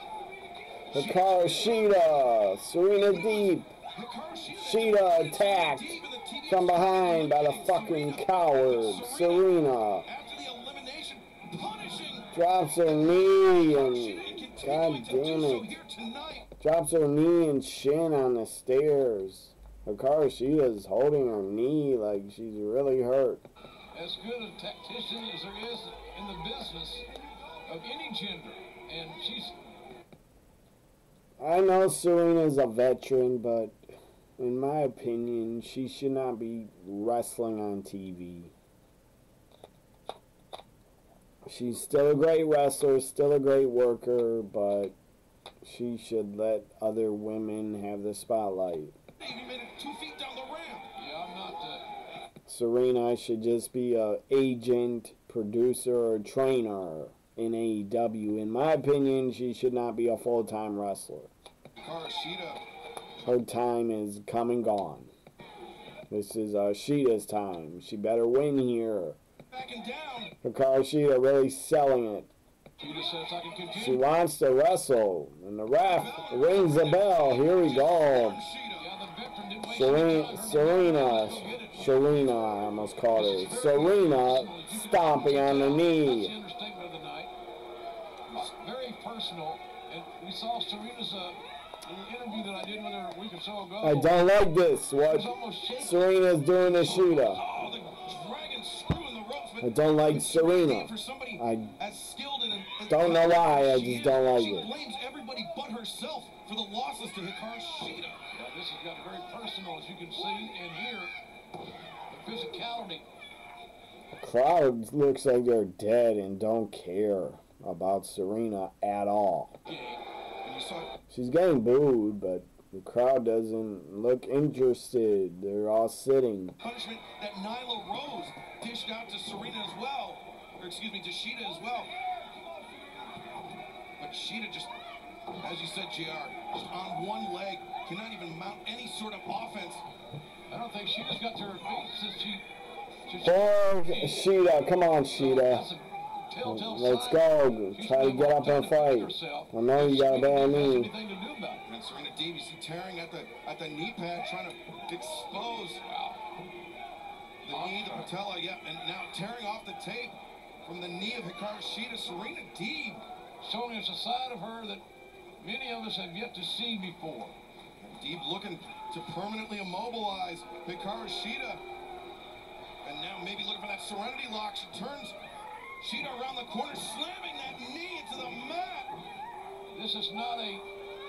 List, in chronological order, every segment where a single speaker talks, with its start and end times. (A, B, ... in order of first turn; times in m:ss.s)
0:00.9-0:02.0 A
0:00.9-0:03.7 B
0:03.0-0:09.5 A
0:04.6-0:10.1 B
0:10.0-0:12.3 A
0:12.3-0:15.8 B
0:13.0-0:16.5 A
0:16.6-0:23.4 B
0:23.9-0:27.0 C
0:27.7-0:29.6 C
0:31.4-0:33.8 B
0:34.4-0:38.5 B
0:41.4-0:45.0 B
0:45.6-0:49.0 B
0:49.2-0:50.9 A
0:51.0-0:51.8 C
0:52.5-1:01.3 B
1:01.8-1:02.6 A
1:03.2-1:05.1 B
1:06.1-1:09.2 B
1:09.5-1:10.3 A
1:10.4-1:12.3 B
1:12.8-1:14.1 C
1:13.7-1:18.4 B
1:15.8-1:18.8 A
1:18.8-1:22.0 C
1:19.6-1:26.3 B
1:23.1-1:27.3 C
1:28.3-1:34.2 C
1:33.8-1:37.4 B
1:35.1-1:37.4 C
1:37.2-1:48.2 A
1:39.6-1:41.8 B
1:42.9-1:44.7 B
1:48.3-1:51.1 C
1:52.1-1:53.0 C
1:54.2-1:59.6 B
1:59.6-2:00.0 C
2:00.4-2:00.9 A
2:01.1-2:06.6 B
2:06.6-2:11.9 A
2:14.0-2:14.7 A
2:15.4-2:19.8 A
2:20.5-2:22.4 C
2:23.1-2:24.2 C
2:23.2-2:25.7 B
2:25.1-2:31.6 C
2:26.4-2:30.9 B
2:31.6-2:35.8 A
2:35.8-2:36.2 C
2:37.4-2:43.0 A
2:37.5-2:38.1 C
2:43.4-2:44.8 C
2:45.4-2:47.4 C
2:47.8-2:51.6 A
2:52.8-2:55.2 A
2:55.8-2:58.9 A
2:59.7-3:00.6 C